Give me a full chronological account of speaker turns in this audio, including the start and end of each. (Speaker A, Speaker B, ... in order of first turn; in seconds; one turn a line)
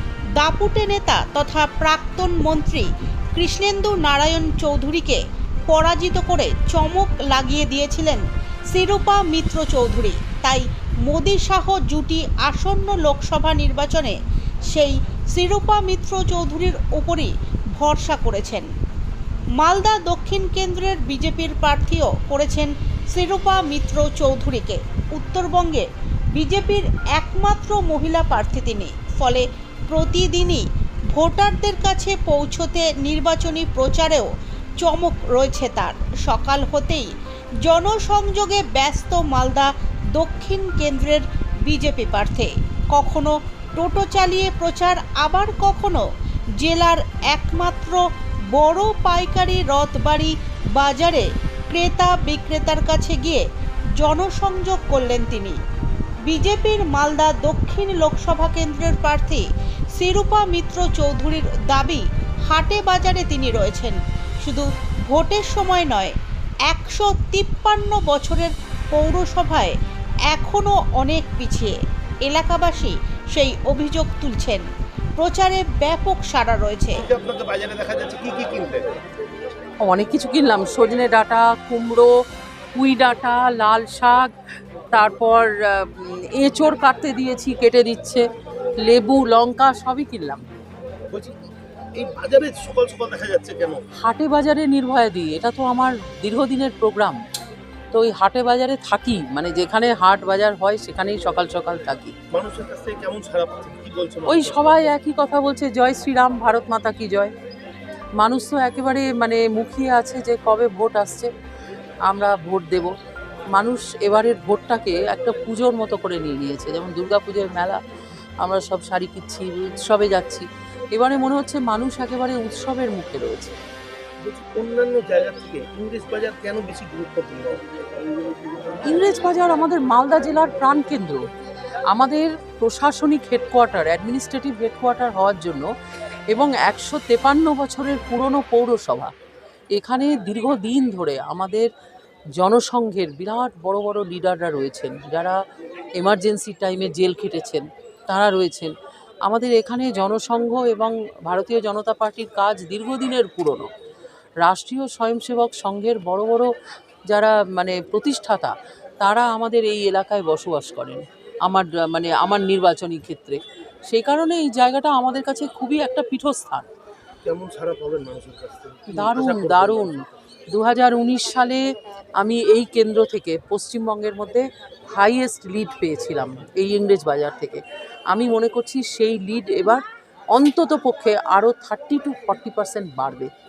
Speaker A: 0.4-14.2
Speaker A: 14.7-18.7
Speaker A: 19.6-34.3
Speaker A: 34.8-37.1
Speaker A: 37.6-46.0
Speaker A: 46.6-53.4
Speaker A: 54.0-55.6
Speaker A: 56.3-66.2
Speaker A: 66.7-69.8
Speaker A: 70.3-74.7
Speaker A: 75.2-77.0
Speaker B: 77.0-79.0
Speaker C: 79.8-82.1
Speaker C: 82.8-84.3
Speaker C: 84.9-88.2
Speaker C: 88.8-90.4
Speaker B: 92.0-93.8
Speaker C: 94.0-97.2
Speaker C: 97.9-102.1
Speaker B: 102.3-104.9
Speaker C: 104.3-107.3
Speaker C: 108.2-111.3
Speaker C: 112.1-112.9
Speaker C: 113.5-117.8
Speaker C: 118.4-123.5
Speaker B: 124.2-127.6
Speaker C: 128.9-131.2
Speaker C: 131.9-135.7
Speaker C: 136.3-139.1
Speaker C: 139.7-141.7
Speaker C: 142.4-145.4
Speaker C: 146.0-148.7
Speaker C: 149.2-153.7
Speaker C: 154.4-156.5
Speaker C: 157.1-166.7
Speaker B: 167.2-170.1
Speaker C: 168.9-171.6
Speaker C: 172.2-183.3